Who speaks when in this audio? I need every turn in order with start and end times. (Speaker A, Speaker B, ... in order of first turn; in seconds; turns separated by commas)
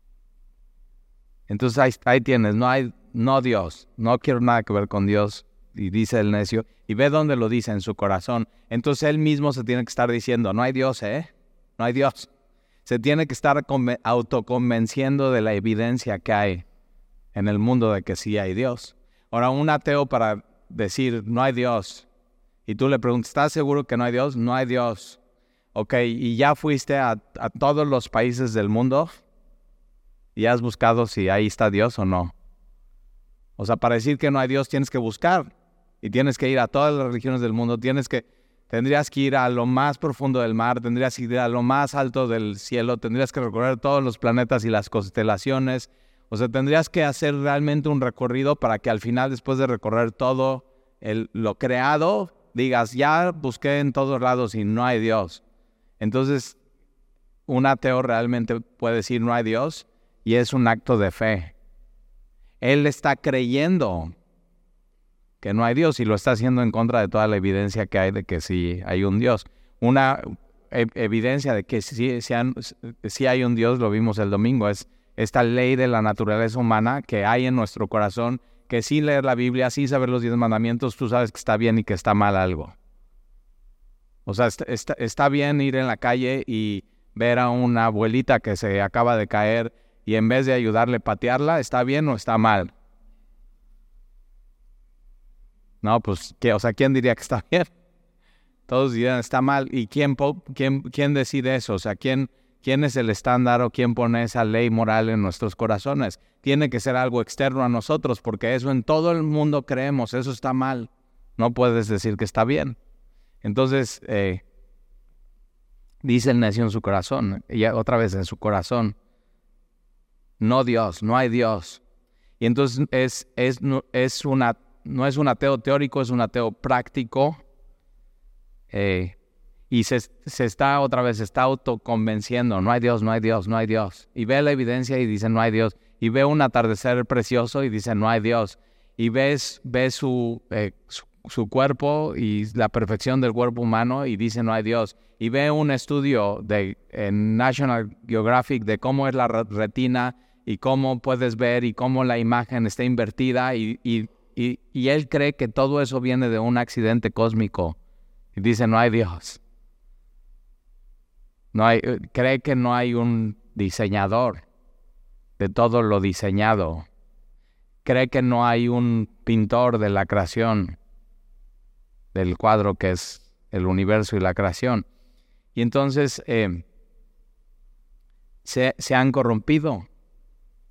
Speaker A: 1.5-12.3, Speaker A: 12.8-16.6, Speaker A: 17.3-22.1, Speaker A: 22.7-25.2, Speaker A: 25.7-29.2, Speaker A: 30.4-32.3, Speaker A: 33.6-35.5, Speaker A: 36.0-55.4, Speaker A: 56.0-56.6, Speaker A: 57.5-61.5, Speaker A: 62.6-64.1, Speaker A: 65.4-82.8, Speaker A: 84.3-92.7, Speaker A: 95.8-97.7, Speaker A: 98.7-112.8, Speaker A: 113.4-114.4, Speaker A: 116.0-119.0, Speaker A: 120.4-121.8, Speaker A: 122.4-127.4, Speaker A: 128.7-129.2, Speaker A: 129.7-157.8, Speaker A: 158.3-159.4, Speaker A: 161.5-164.4, Speaker A: 165.4-166.9, Speaker A: 167.8-170.8, Speaker A: 172.1-174.9, Speaker A: 175.6-176.6, Speaker A: 178.4-179.9